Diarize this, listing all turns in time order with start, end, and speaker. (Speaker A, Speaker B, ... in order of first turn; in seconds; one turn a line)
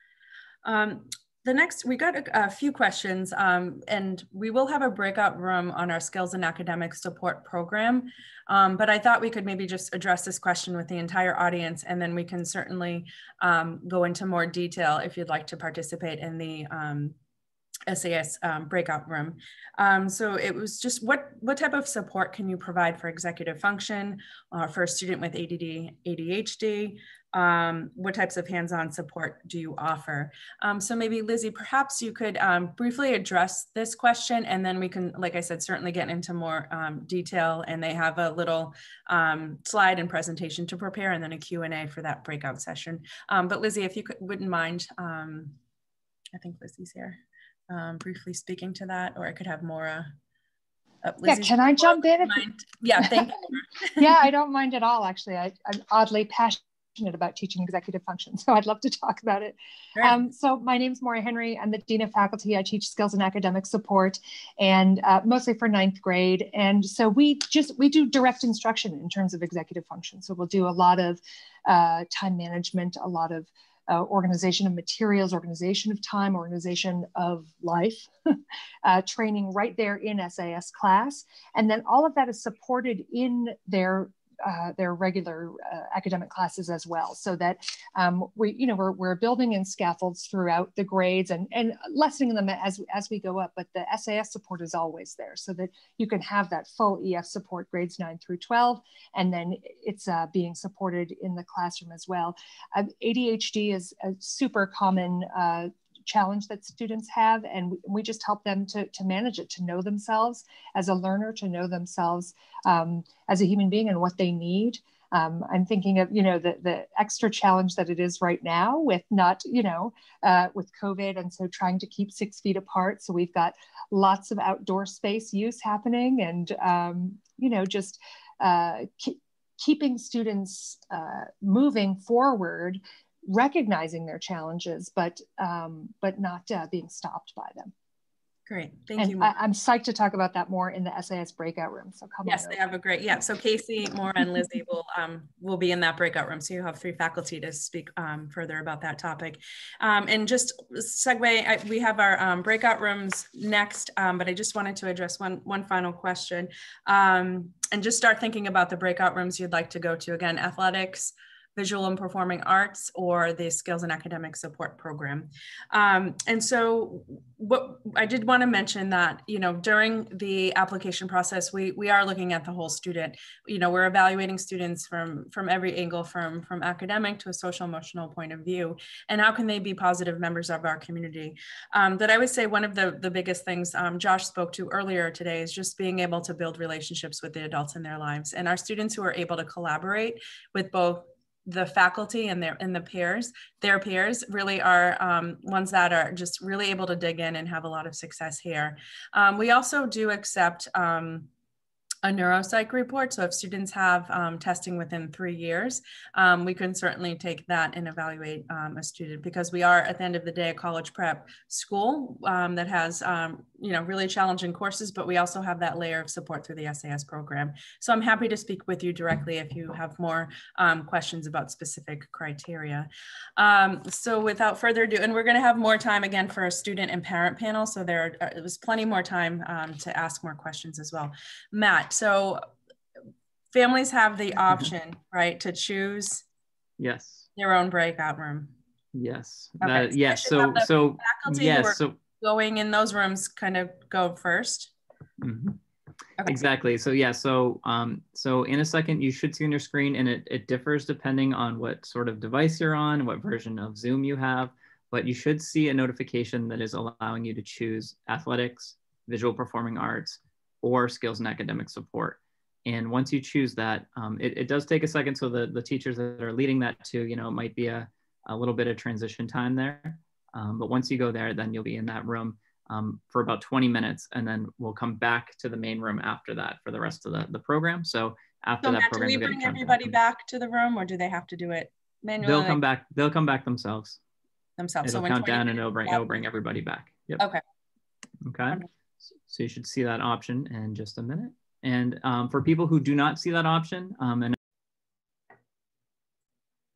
Speaker A: 0.6-17.1
Speaker A: 17.9-45.6
Speaker A: 46.3-50.1
Speaker A: 51.0-54.2
Speaker B: 51.2-52.5
Speaker B: 53.0-53.3
Speaker B: 54.0-78.1
Speaker A: 60.0-60.3
Speaker B: 78.8-137.7
Speaker A: 138.5-139.3
Speaker B: 139.0-142.6
Speaker A: 142.2-201.3
Speaker A: 202.0-232.4
Speaker A: 233.5-236.2
Speaker C: 236.8-237.3
Speaker A: 237.3-238.5
Speaker C: 238.9-242.0
Speaker A: 239.6-244.7
Speaker C: 245.2-245.6
Speaker A: 246.2-246.5
Speaker C: 246.2-280.0
Speaker A: 278.6-282.6
Speaker C: 282.2-284.0
Speaker A: 284.6-286.1
Speaker C: 284.8-287.2
Speaker C: 288.2-294.4